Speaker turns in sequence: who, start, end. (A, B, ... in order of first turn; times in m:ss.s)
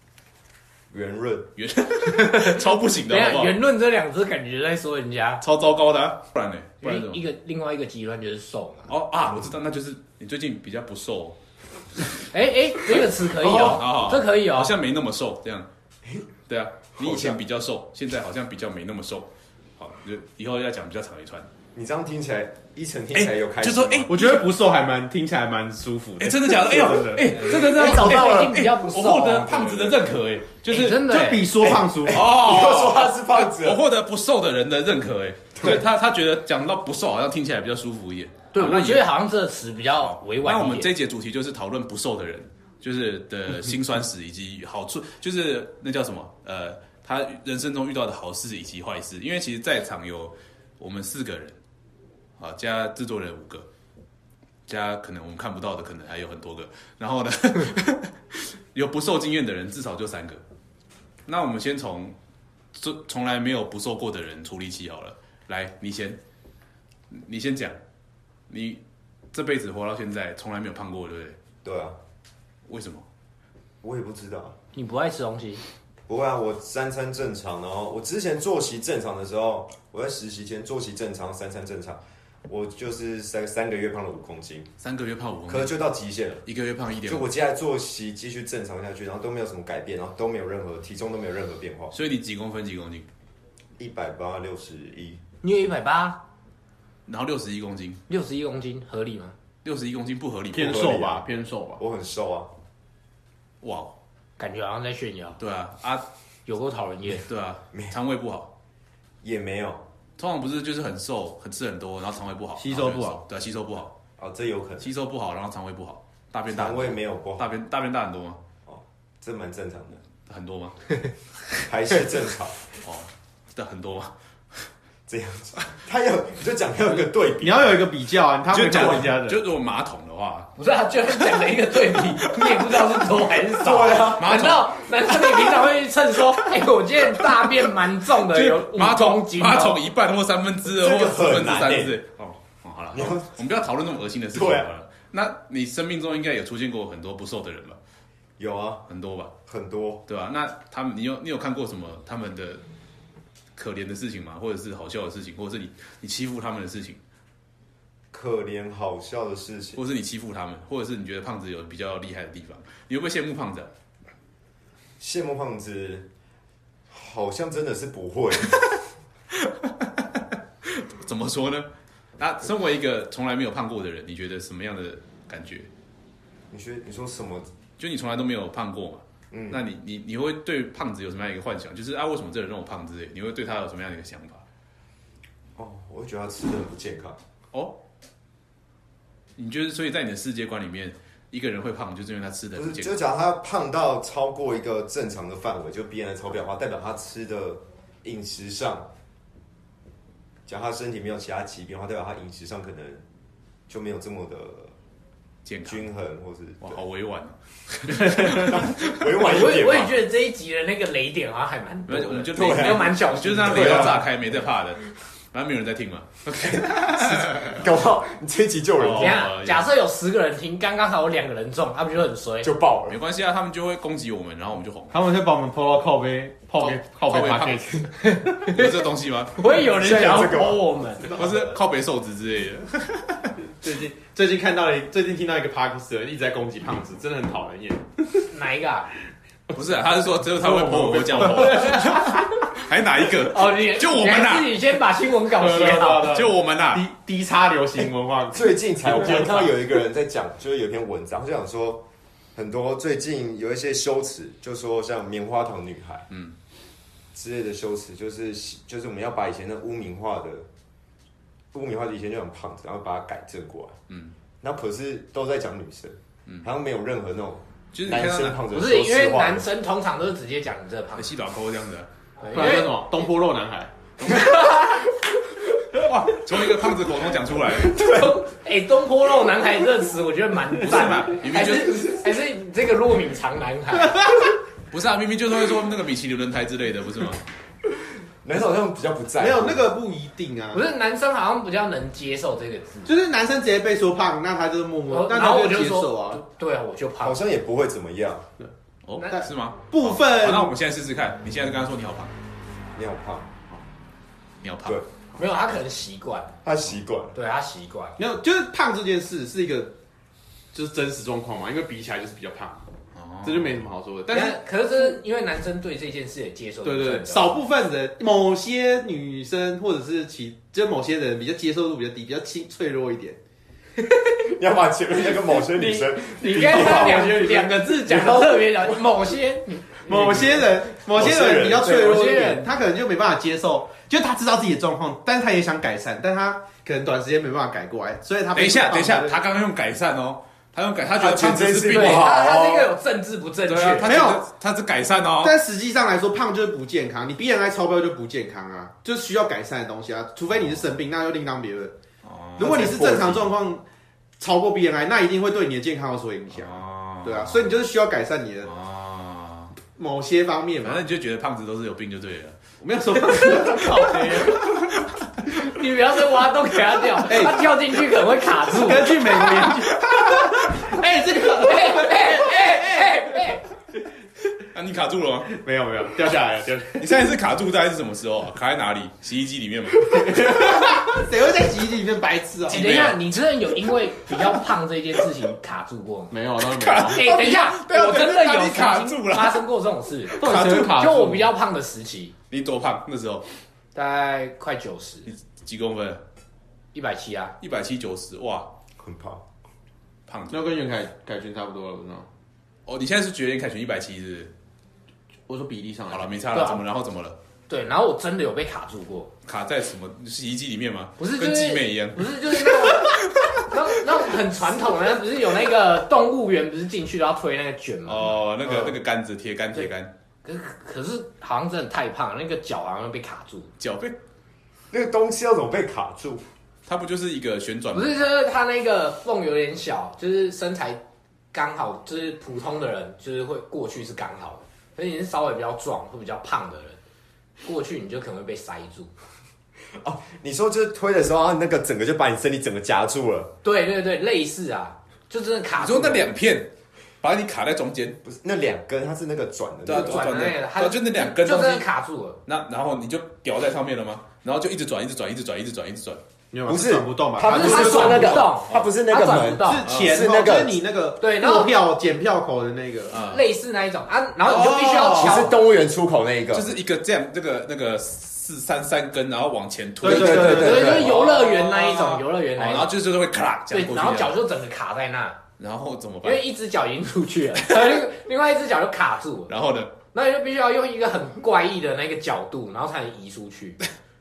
0:00.9-0:01.5 A
0:01.6-0:03.6 B
0:02.1-0:05.4 C
0:05.4-0:07.2 B
0:06.8-0:08.9 C
0:08.9-0:11.4 B
0:12.3-0:14.7 C
0:13.4-0:15.7 B
0:16.5-0:21.5 B
0:17.0-0:17.4 A
0:21.7-0:24.1 A
0:23.1-0:24.4 B
0:24.1-0:27.5 D
0:26.2-0:31.1 B
0:27.4-0:29.9 C
0:27.5-0:28.5 A
0:30.7-0:31.5 C
0:31.0-0:32.3 D
0:31.6-0:33.8 A
0:32.1-0:39.1 B
0:38.5-0:40.9 C
0:40.4-0:51.6 B
0:52.4-0:53.6 B
0:54.7-1:00.4 B
1:01.2-1:02.2 B
1:02.7-1:06.2 B
1:07.1-1:07.8 B
1:08.5-1:08.8 B
1:09.3-1:11.4 B
1:11.6-1:12.0 A
1:12.7-1:13.0 B
1:13.8-1:14.6 A
1:14.7-1:15.6 C
1:16.1-1:24.7 A
1:24.8-1:25.7 B
1:25.5-1:26.4 A
1:26.4-1:27.2 B
1:27.1-1:31.9 A
1:31.9-1:33.0 B
1:33.8-1:35.2 A
1:35.4-1:36.2 C
1:37.0-1:38.0 B
1:38.1-1:39.3 C
1:39.6-1:40.9 B
1:40.5-1:41.8 D
1:40.6-1:41.2 A
1:41.8-1:42.5 A
1:43.6-1:44.0 B
1:44.4-1:45.4 C
1:45.4-1:46.0 B
1:46.5-1:47.2 C
1:47.2-1:48.5 B
1:49.2-1:49.8 A
1:50.2-1:53.9 B
1:52.6-1:53.2 D
1:54.2-1:54.9 A
1:54.8-1:58.4 B
1:56.5-1:57.5 A
1:58.6-2:00.0 A
2:00.1-2:00.8 B
2:01.6-2:02.6 A
2:02.8-2:04.6 B
2:05.1-2:07.8 A
2:07.4-2:09.4 D
2:08.5-2:10.5 B
2:10.6-2:19.8 C
2:11.2-2:13.0 B
2:13.6-2:14.3 A
2:13.8-2:15.6 B
2:18.2-2:27.8 B
2:20.7-2:22.0 A
2:22.9-2:23.3 A
2:24.3-2:24.7 A
2:28.4-2:28.8 A
2:28.9-2:29.3 B
2:29.4-2:30.0 A
2:30.1-2:32.6 B
2:33.6-2:37.0 B
2:38.1-2:39.8 A
2:39.8-2:43.7 B
2:45.0-2:46.1 A
2:46.9-2:48.7 A
2:49.3-2:51.7 B
2:52.2-2:55.7 B
2:56.5-2:57.5 A
2:57.8-3:04.4 B
2:59.3-2:59.6 A
3:05.6-3:07.2 A
3:09.4-3:13.0 B
3:12.5-3:18.9 A
3:20.4-3:23.0 A
3:23.7-3:24.7 A
3:25.4-3:25.8 B
3:25.6-3:26.8 A
3:26.6-3:29.2 B
3:28.2-3:30.0 A
3:29.2-3:34.1 C
3:31.9-3:37.6 B
3:32.3-3:34.0 A
3:36.4-3:39.3 A
3:38.8-3:39.6 B
3:38.8-3:42.5 C
3:42.4-3:43.0 A
3:42.9-3:44.9 B
3:44.9-3:47.9 D
3:46.6-3:47.6 B
3:48.0-3:48.7 C
3:48.4-3:49.4 B
3:49.4-3:51.2 C
3:49.8-3:50.6 A
3:51.0-3:53.3 B
3:53.5-3:58.2 D
3:58.3-3:58.9 C
3:59.5-4:04.6 B
4:00.4-4:01.7 D
4:01.3-4:02.3 C
4:03.2-4:06.2 C
4:05.4-4:09.5 D
4:06.1-4:06.8 B
4:08.3-4:11.8 A
4:12.3-4:16.0 A
4:17.1-4:20.5 A
4:21.5-4:23.8 A
4:24.4-4:29.4 A
4:27.7-4:28.4 B
4:28.5-4:31.1 C
4:31.0-4:31.9 B
4:32.2-4:32.7 C
4:32.3-4:33.7 D
4:34.0-4:34.3 B
4:34.0-4:34.8 C
4:35.7-4:37.8 B
4:37.7-4:44.2 C
4:37.8-4:38.1 A
4:40.6-4:41.9 B
4:44.7-4:47.2 B
4:48.2-4:49.7 A
4:49.2-4:50.7 D
4:50.5-4:52.9 C
4:52.8-4:56.2 D
4:54.9-4:57.2 C
4:57.0-4:58.2 A
4:58.4-5:00.5 D
4:58.8-5:02.1 B
5:02.7-5:03.3 A
5:04.4-5:04.8 B
5:05.2-5:06.3 C
5:06.4-5:07.1 A
5:07.1-5:08.0 C
5:08.0-5:09.7 D
5:10.5-5:12.6 D
5:12.9-5:13.6 B
5:13.2-5:14.4 D
5:14.1-5:17.3 C
5:16.6-5:23.2 D
5:24.2-5:27.2 A
5:25.6-5:28.3 D
5:26.0-5:30.4 C
5:29.9-5:39.2 D
5:30.1-5:31.7 A
5:31.6-5:32.5 C
5:38.3-5:42.1 B
5:40.9-5:42.7 A
5:41.7-5:43.9 C
5:43.5-5:45.4 B
5:43.8-5:44.2 D
5:45.2-5:51.7 D
5:52.0-5:53.3 B
5:52.4-5:53.6 D
5:52.4-5:53.1 A
5:54.2-5:58.5 D
5:56.3-5:57.6 B
5:58.4-5:59.5 B
5:59.7-6:00.8 D
6:00.6-6:02.4 B
6:02.6-6:04.5 D
6:03.2-6:04.8 B
6:05.3-6:09.2 C
6:07.1-6:07.4 D
6:08.4-6:12.2 D
6:11.1-6:13.4 C
6:14.5-6:15.3 B
6:15.3-6:16.9 D
6:16.8-6:20.4 B
6:19.8-6:22.9 D
6:22.5-6:23.1 B
6:22.5-6:26.1 C
6:26.1-6:27.1 D
6:26.5-6:29.4 B
6:26.8-6:32.1 C
6:30.1-6:31.1 B
6:30.1-6:31.3 D
6:32.3-6:33.2 B
6:33.7-6:35.1 C
6:35.1-6:36.0 B
6:36.7-6:37.3 C
6:37.4-6:38.5 B
6:38.8-6:39.2 A
6:40.1-6:40.5 B
6:40.3-6:42.1 D
6:42.6-6:44.3 B
6:45.3-6:46.2 D
6:45.9-6:47.2 B
6:46.3-6:46.6 C
6:47.5-6:49.1 C
6:49.2-6:53.5 B
6:51.0-6:58.2 C
6:57.8-6:59.9 B
7:00.2-7:03.5 C
7:03.6-7:04.0 B
7:04.7-7:06.2 A
7:06.6-7:08.0 B
7:07.7-7:10.8 C
7:11.3-7:16.8 C
7:17.4-7:18.9 C
7:19.8-7:23.3 A
7:23.4-7:26.1 C
7:25.6-7:26.5 B
7:27.0-7:28.0 B
7:28.0-7:30.1 A
7:29.6-7:31.7 B
7:29.7-7:32.2 C
7:32.2-7:36.0 B
7:36.3-7:38.3 D
7:36.4-7:40.5 A
7:37.2-7:39.6 C
7:39.4-7:42.9 D
7:39.6-7:40.0 B
7:41.0-7:41.5 C
7:42.9-7:43.2 B
7:42.9-7:45.4 C
7:44.3-7:45.3 B
7:44.6-7:46.5 A
7:46.3-7:50.8 B
7:49.8-7:52.0 D
7:49.8-7:51.0 A
7:50.1-7:52.7 C
7:52.4-7:54.2 B
7:53.5-7:55.2 C
7:55.4-7:56.2 B
7:56.0-7:59.3 C
7:57.4-7:57.8 B
7:59.3-7:59.7 B
7:59.9-8:03.6 C